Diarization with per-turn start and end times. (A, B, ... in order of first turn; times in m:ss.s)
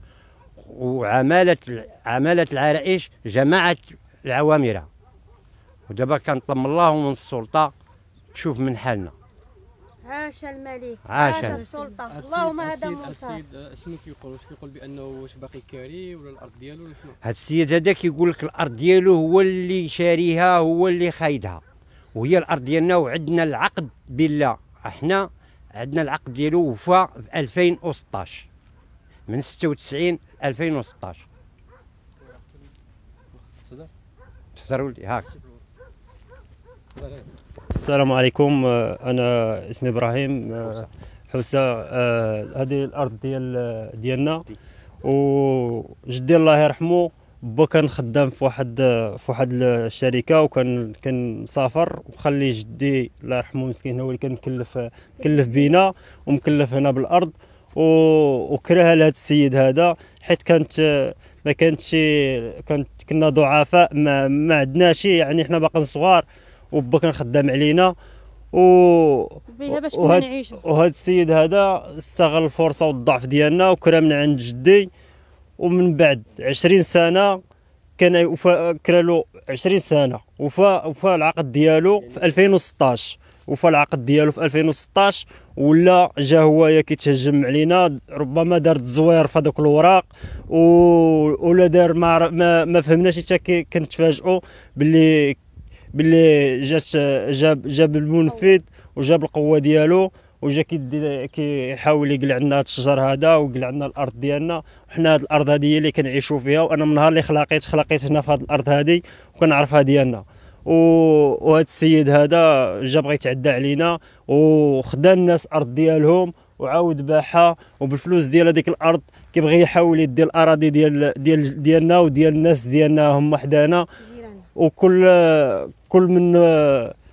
0:00.6-0:04.9 A
0:05.9-0:07.7 A
0:08.3-0:09.1 A
0:10.0-0:13.4 B
0:11.0-0:11.7 A
0:11.3-0:17.2 C
0:17.2-0:21.6 A
0:22.1-0:28.4 A
0:29.3-0:31.2 A
0:33.3-0:33.9 C
0:34.6-0:35.3 A
0:36.9-0:37.3 C
0:37.7-0:44.4 D
0:45.0-1:07.9 D
1:08.5-1:14.9 D
1:09.5-1:10.6 B
1:15.6-1:17.4 D
1:18.0-1:35.4 D
1:22.0-1:22.4 C
1:35.9-2:03.9 D
2:04.0-2:04.4 B
2:04.6-2:06.9 D